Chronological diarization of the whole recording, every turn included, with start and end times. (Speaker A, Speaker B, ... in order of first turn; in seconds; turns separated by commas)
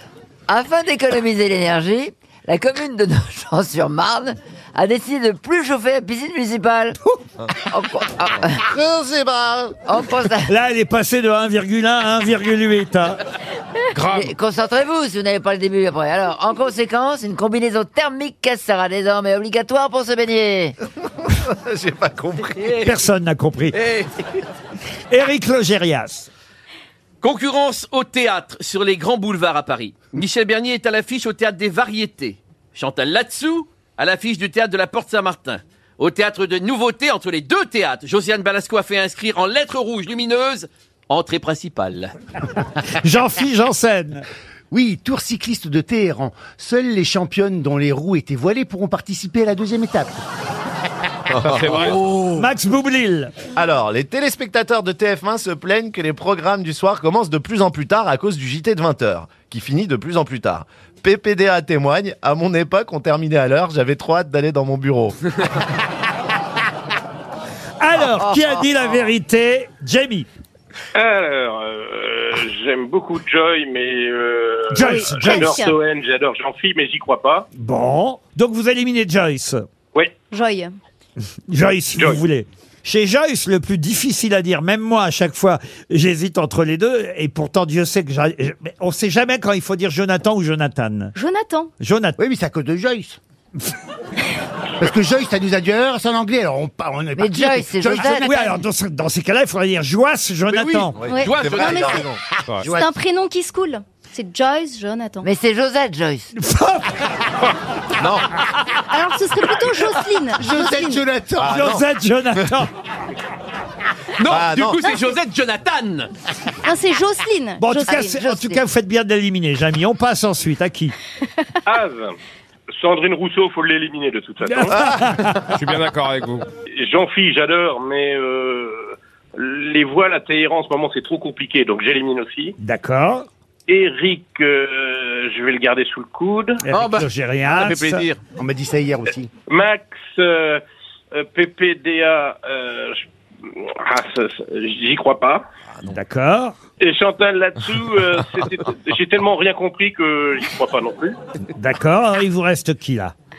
Speaker A: 0.5-7.0, Speaker A: 7.5-8.6, Speaker B: 8.7-9.8, Speaker A: 9.8-10.4, Speaker C: 10.4-13.2, Speaker D: 13.9-14.3, Speaker A: 14.2-20.8, Speaker B: 21.2-22.7, Speaker E: 22.6-22.9, Speaker C: 22.8-23.8, Speaker E: 23.7-24.4, Speaker C: 25.1-26.3, Speaker E: 27.2-42.1, Speaker C: 42.8-44.2, Speaker F: 44.7-50.2, Speaker B: 51.3-51.5, Speaker D: 51.4-52.0, Speaker C: 52.3-53.4, Speaker B: 53.6-65.2, Speaker C: 67.8-70.3, Speaker G: 70.9-74.8, Speaker C: 74.7-75.6, Speaker H: 74.8-75.8, Speaker G: 75.3-77.5, Speaker C: 77.5-79.6, Speaker H: 80.3-80.7, Speaker C: 81.5-91.2, Speaker H: 91.2-91.7, Speaker C: 91.8-92.2, Speaker F: 92.2-93.2, Speaker F: 94.8-98.6, Speaker A: 97.2-98.3, Speaker C: 98.0-101.0, Speaker E: 100.5-102.0, Speaker B: 101.0-102.2, Speaker H: 101.1-102.0, Speaker F: 102.6-102.9, Speaker H: 102.7-105.3, Speaker A: 105.2-106.3, Speaker C: 106.3-107.3, Speaker B: 108.0-108.3, Speaker H: 108.9-111.0, Speaker F: 110.3-111.6, Speaker B: 111.4-111.8, Speaker C: 111.4-112.7, Speaker E: 114.2-116.1, Speaker B: 114.3-114.8, Speaker H: 116.6-118.2, Speaker C: 117.6-120.9, Speaker A: 118.2-118.6, Speaker G: 121.7-122.1, Speaker G: 122.8-124.7, Speaker C: 124.4-125.5, Speaker D: 125.5-126.5, Speaker G: 126.8-132.5, Speaker C: 132.6-133.3, Speaker G: 133.7-136.6, Speaker C: 136.7-138.1, Speaker E: 136.7-138.2, Speaker F: 138.4-139.3, Speaker G: 139.5-140.6, Speaker G: 141.1-145.4, Speaker C: 145.8-146.5, Speaker G: 146.8-151.2, Speaker C: 151.6-153.1